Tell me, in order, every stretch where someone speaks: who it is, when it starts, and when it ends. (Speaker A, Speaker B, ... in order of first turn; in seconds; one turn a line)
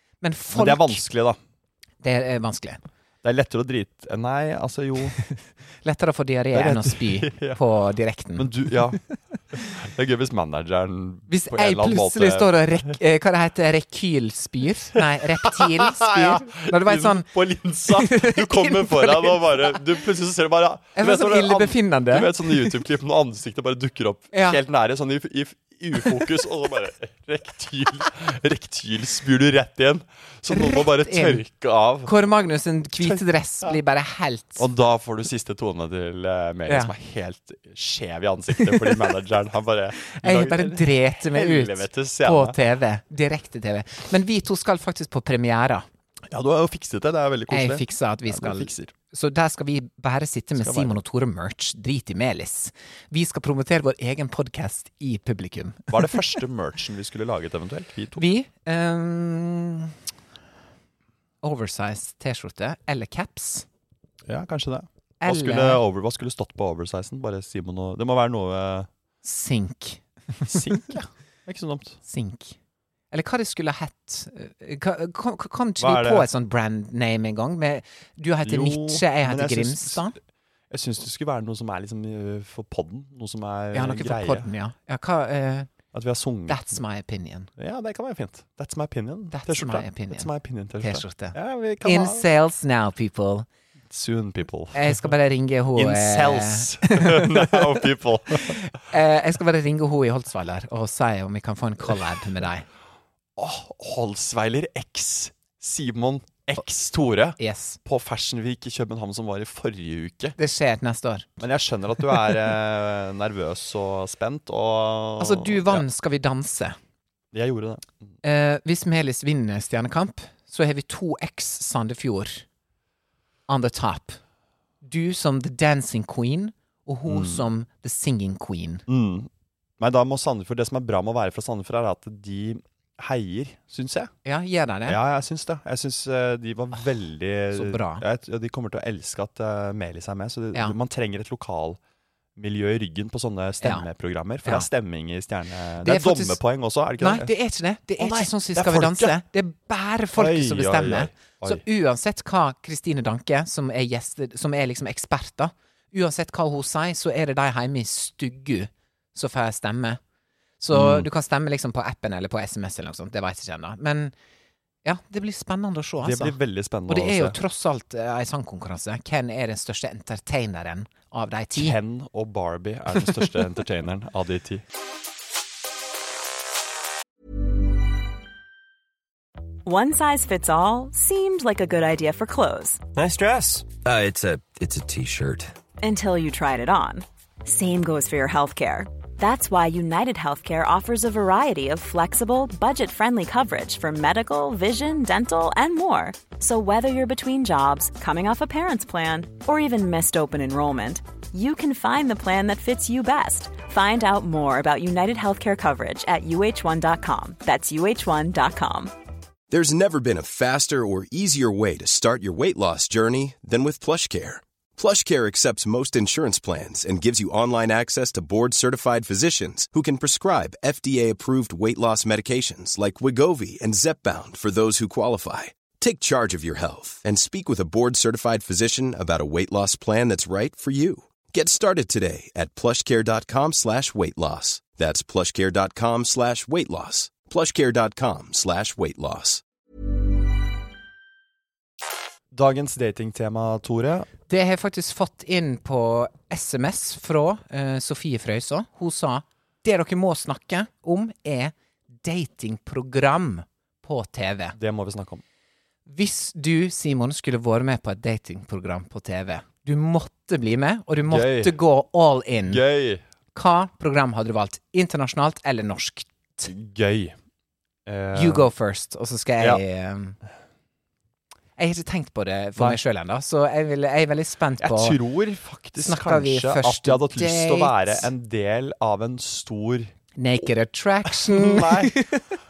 Speaker A: 0.2-1.0
Speaker B: 0.5-1.4
Speaker A: 2.0-2.8
Speaker B: 3.2-5.2
Speaker A: 5.8-8.8
Speaker B: 6.5-7.6
Speaker B: 8.4-9.0
Speaker B: 9.5-12.9
Speaker A: 11.3-17.3
Speaker B: 15.4-32.1
Speaker A: 17.9-19.8
Speaker A: 21.0-22.8
Speaker A: 24.3-24.6
Speaker A: 30.5-31.4
Speaker A: 32.0-34.7
Speaker B: 33.0-33.8
Speaker B: 34.6-42.6
Speaker A: 36.7-36.9
Speaker A: 38.6-39.1
Speaker A: 40.1-45.9
Speaker B: 46.3-48.9
Speaker A: 47.5-56.3
Speaker B: 50.6-51.0
Speaker B: 55.9-58.2
Speaker A: 58.2-59.9
Speaker A: 61.4-63.7
Speaker B: 64.3-68.9
Speaker A: 65.2-65.8
Speaker A: 69.2-71.0
Speaker B: 70.5-72.0
Speaker A: 72.1-72.6
Speaker A: 73.1-80.2
Speaker B: 75.8-76.3
Speaker B: 78.5-80.1
Speaker B: 80.7-84.5
Speaker A: 83.7-85.7
Speaker B: 85.9-86.8
Speaker A: 86.5-87.5
Speaker B: 87.6-92.3
Speaker A: 89.3-93.5
Speaker B: 93.9-95.1
Speaker A: 94.7-97.8
Speaker B: 95.7-98.6
Speaker A: 98.3-102.7
Speaker B: 103.4-110.4
Speaker A: 107.4-107.8
Speaker A: 110.4-111.4
Speaker B: 111.4-115.8
Speaker A: 115.2-116.8
Speaker B: 117.3-117.9
Speaker A: 118.2-122.5
Speaker A: 123.5-124.2
Speaker A: 124.8-128.8
Speaker B: 127.1-127.5
Speaker B: 128.9-134.1
Speaker A: 134.2-135.0
Speaker B: 134.9-141.8
Speaker A: 137.5-138.0
Speaker B: 142.4-147.3
Speaker A: 143.6-143.9
Speaker A: 145.8-146.4
Speaker A: 147.0-160.0
Speaker B: 148.0-149.2
Speaker B: 150.1-151.6
Speaker A: 160.6-164.1
Speaker B: 160.7-161.1
Speaker A: 164.8-171.8
Speaker B: 166.0-167.4
Speaker B: 171.5-174.6
Speaker C: 179.7-182.8
Speaker D: 182.9-185.5
Speaker C: 185.8-208.9
Speaker E: 209.5-239.4
Speaker B: 242.3-244.1
Speaker A: 244.3-254.6
Speaker B: 254.6-255.2
Speaker A: 255.9-262.6
Speaker B: 261.1-261.6
Speaker B: 262.5-263.0
Speaker A: 263.3-266.5
Speaker B: 266.4-267.2
Speaker B: 267.9-268.5
Speaker A: 268.1-270.2
Speaker A: 271.6-275.0
Speaker B: 274.6-279.9
Speaker A: 275.8-278.1
Speaker A: 280.2-282.3
Speaker B: 281.1-282.1